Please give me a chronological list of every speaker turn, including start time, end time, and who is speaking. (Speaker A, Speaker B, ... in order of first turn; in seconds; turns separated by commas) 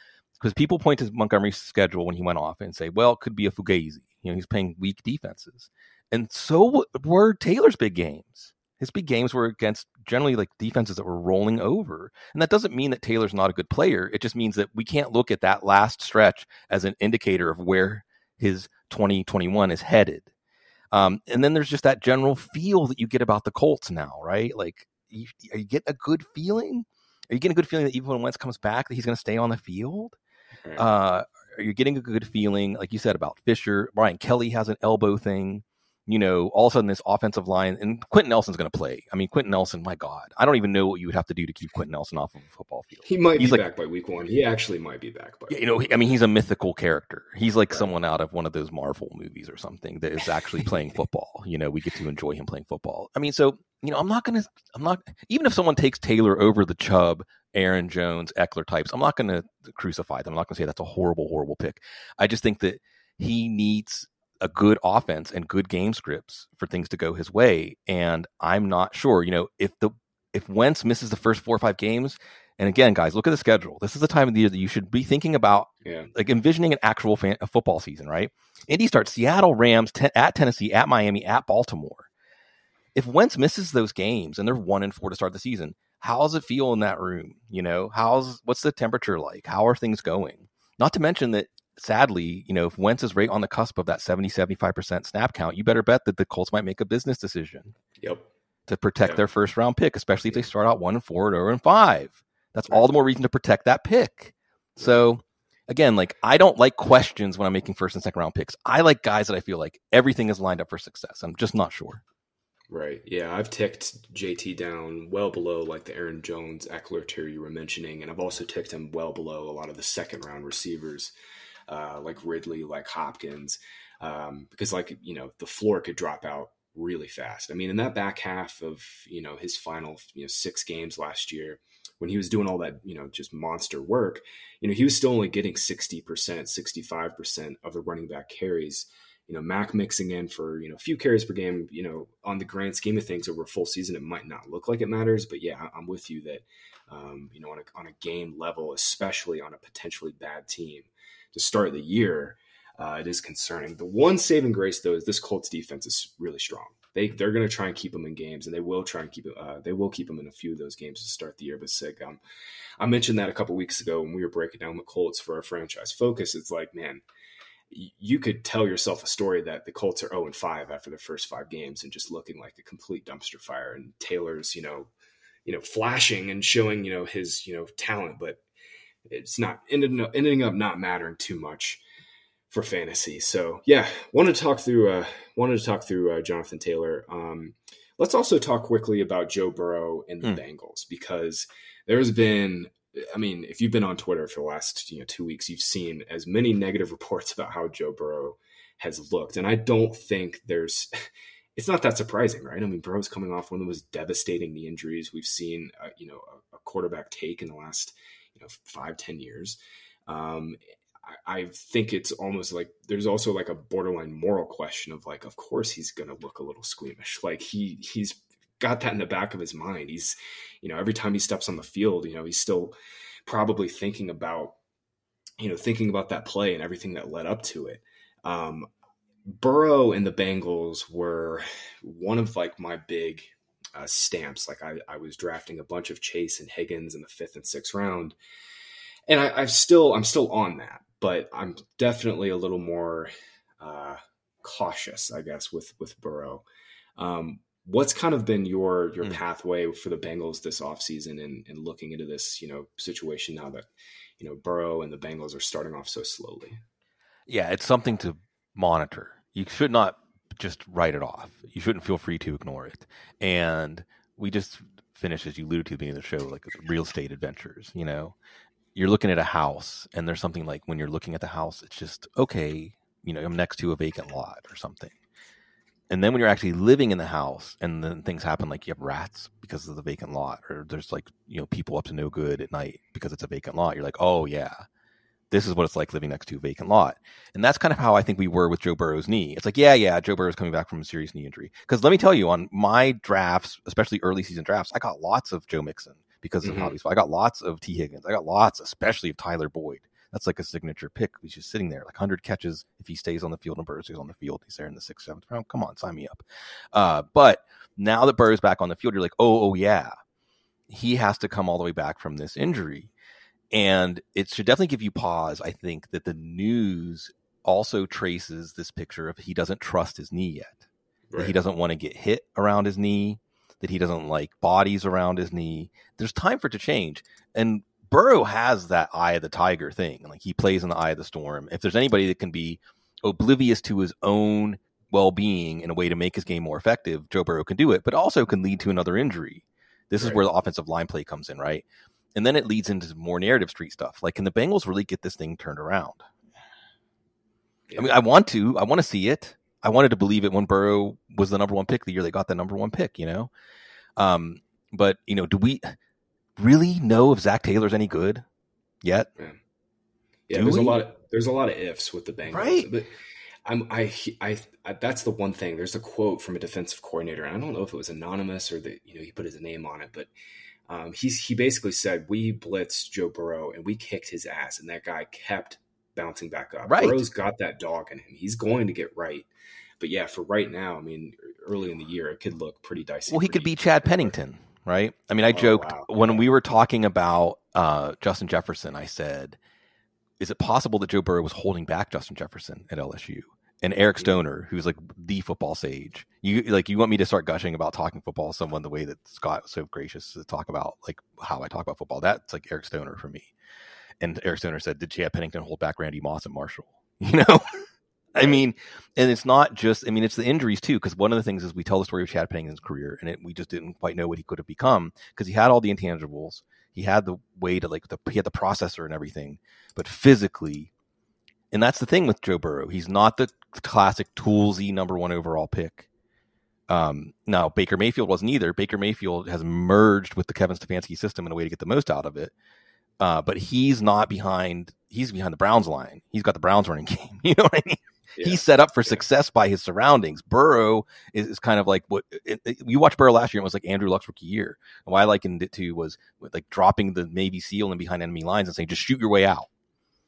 Speaker A: 0.4-20.3, Speaker A: 20.9-30.2, Speaker A: 30.8-43.6, Speaker B: 43.0-45.6, Speaker A: 45.5-82.1, Speaker B: 75.8-76.1, Speaker A: 82.9-97.7, Speaker B: 98.0-98.3, Speaker A: 98.7-112.0, Speaker B: 100.2-100.5, Speaker B: 112.7-121.1, Speaker B: 121.7-162.2, Speaker B: 162.8-167.0, Speaker B: 167.7-174.9, Speaker B: 175.4-178.4, Speaker B: 179.1-181.8, Speaker B: 182.5-200.9, Speaker B: 201.6-222.7, Speaker B: 223.2-224.6, Speaker B: 225.4-228.7, Speaker B: 229.2-238.2, Speaker B: 239.1-246.4, Speaker B: 247.0-253.7, Speaker B: 254.2-256.6, Speaker A: 257.3-268.1, Speaker A: 268.7-274.9, Speaker A: 275.9-284.6, Speaker A: 285.3-309.9, Speaker B: 296.4-296.7, Speaker A: 310.7-312.9, Speaker A: 313.5-320.6, Speaker B: 321.1-321.4, Speaker A: 321.2-341.6, Speaker B: 340.0-340.2, Speaker A: 342.1-346.0, Speaker B: 347.7-348.0, Speaker A: 347.8-353.3, Speaker A: 354.0-355.8, Speaker A: 356.4-358.2, Speaker A: 358.8-359.1, Speaker B: 360.3-362.9, Speaker A: 360.3-360.8, Speaker A: 362.3-362.7, Speaker B: 363.4-370.1, Speaker B: 370.7-379.3, Speaker A: 376.7-377.0, Speaker B: 379.8-384.1, Speaker A: 383.1-389.4, Speaker B: 385.3-386.2, Speaker A: 390.2-403.3, Speaker A: 404.0-407.5, Speaker A: 408.1-420.7, Speaker A: 421.5-425.9, Speaker A: 426.7-432.3, Speaker A: 433.0-449.5, Speaker B: 438.1-439.0